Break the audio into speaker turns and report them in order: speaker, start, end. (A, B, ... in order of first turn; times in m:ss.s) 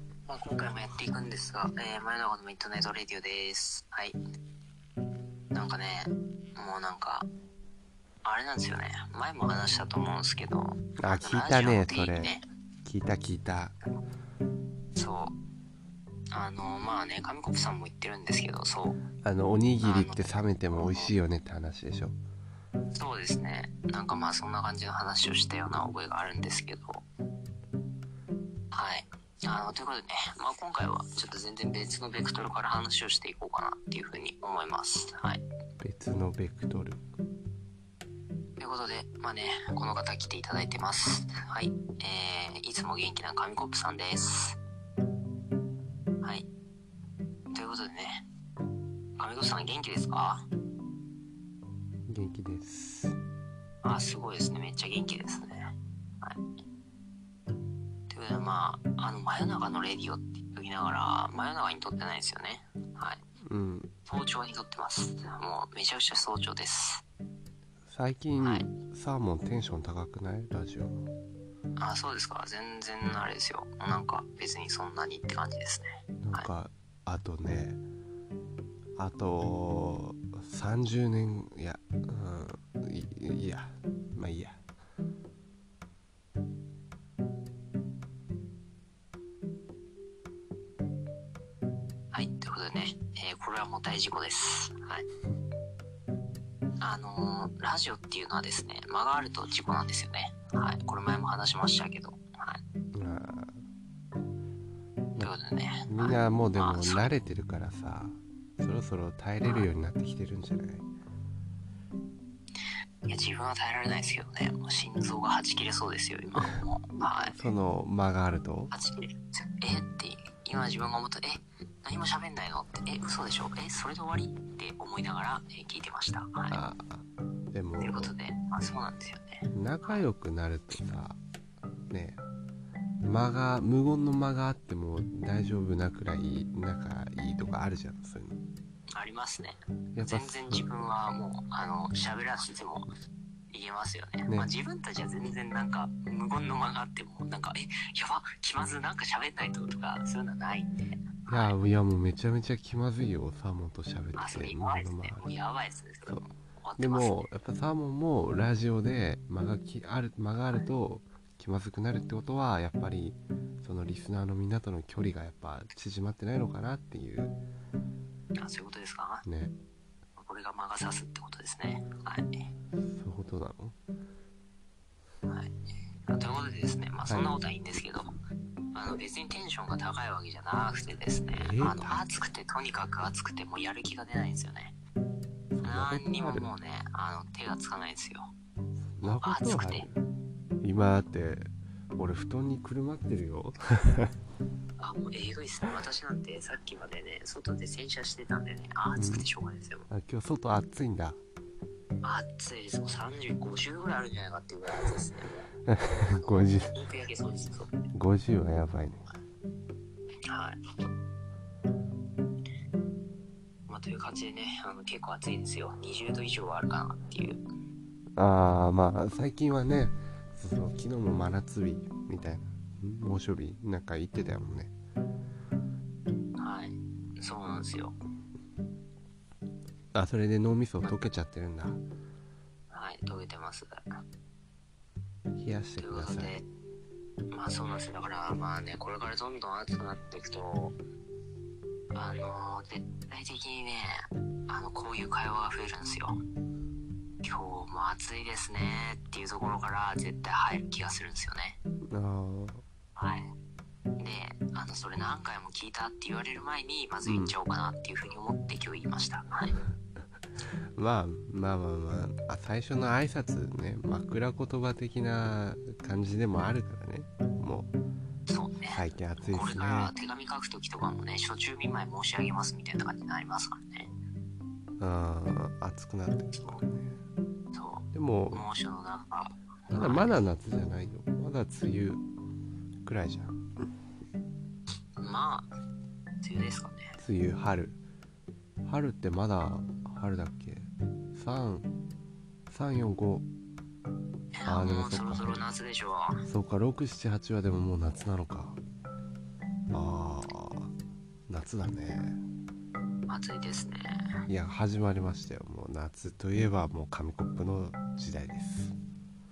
0:00.3-0:04.2 A
0:05.5-0:07.3 A
0:08.2-0:12.4 A
0:11.0-0:13.8 B
0:15.0-0:15.4 A
0:16.3-0:19.0 A
0:19.2-0:22.2 B
0:19.8-0:21.1 A
0:22.9-0:27.0 A
0:28.7-0:35.4 A
0:35.8-0:37.0 B
0:38.6-0:44.6 A
0:46.2-0:46.5 A
0:47.5-0:48.2 A
0:49.2-0:50.5 A
0:52.1-0:53.2 B
0:53.8-0:55.7 A
0:58.1-1:03.2 A
1:03.5-1:03.9 B
1:04.1-1:07.0 A
1:07.9-1:11.1 B
1:08.4-1:08.7 A
1:11.8-1:16.5 A
1:16.2-1:17.8 B
1:19.0-1:24.6 B
1:32.1-1:35.0 A
1:36.8-1:42.6 A
1:42.9-1:43.6 B
1:45.2-1:47.1 A
1:45.9-1:50.9 B
1:49.4-1:49.7 A
1:53.1-1:57.5 A
1:56.9-1:58.7 B
1:58.7-2:06.6 A
2:06.5-2:08.1 B
2:07.8-2:10.1 A
2:09.5-2:11.2 B
2:11.9-2:12.2 B
2:13.0-2:18.4 B
2:19.0-2:22.9 A
2:20.0-2:20.6 B
2:23.5-2:31.5 A
2:31.3-2:35.3 B
2:34.2-2:37.3 A
2:36.8-2:47.3 B
2:48.4-2:49.2 A
2:49.3-2:49.6 B
2:50.2-2:52.5 A
2:52.8-2:53.8 B
2:55.3-2:55.5 A
2:56.1-2:58.1 A
2:57.1-2:57.4 B
2:58.7-3:04.8 A
3:01.3-3:02.1 B
3:05.6-3:06.5 B
3:05.6-3:08.3 A
3:09.0-3:09.9 B
3:09.0-3:09.9 A
3:10.6-3:14.1 B
3:14.8-3:19.9 A
3:18.9-3:19.3 B
3:19.9-3:21.2 B
3:22.0-3:25.5 A
3:25.7-3:26.8 B
3:26.0-3:27.7 A
3:27.9-3:29.1 B
3:30.3-3:30.6 A
3:33.7-3:37.4 A
3:38.2-3:44.7 B
3:46.4-3:48.0 A
3:49.9-3:51.8 B
3:52.7-3:53.7 A
3:55.4-3:56.4 B
3:55.8-3:56.5 A
3:57.3-4:00.8 A
4:01.9-4:06.2 A
4:07.2-4:11.6 A
4:11.9-4:12.6 B
4:13.0-4:13.2 A
4:14.0-4:19.6 A
4:17.0-4:17.4 B
4:20.8-4:27.7 B
4:28.3-4:33.9 A
4:28.7-4:29.9 B
4:34.8-4:37.0 B
4:36.4-4:36.6 A
4:37.5-4:40.2 A
4:37.9-4:38.5 B
4:39.7-4:42.0 B
4:42.8-4:43.5 B
4:45.0-4:45.5 A
4:46.2-4:46.9 A
4:47.0-4:47.8 B
4:48.7-4:51.7 B
4:52.5-4:53.3 B
4:54.3-4:56.2 A
4:54.5-4:55.3 B
4:56.3-4:58.6 B
4:59.7-5:00.7 B
5:01.3-5:02.2 B
5:03.1-5:03.8 A
5:04.3-5:08.8 B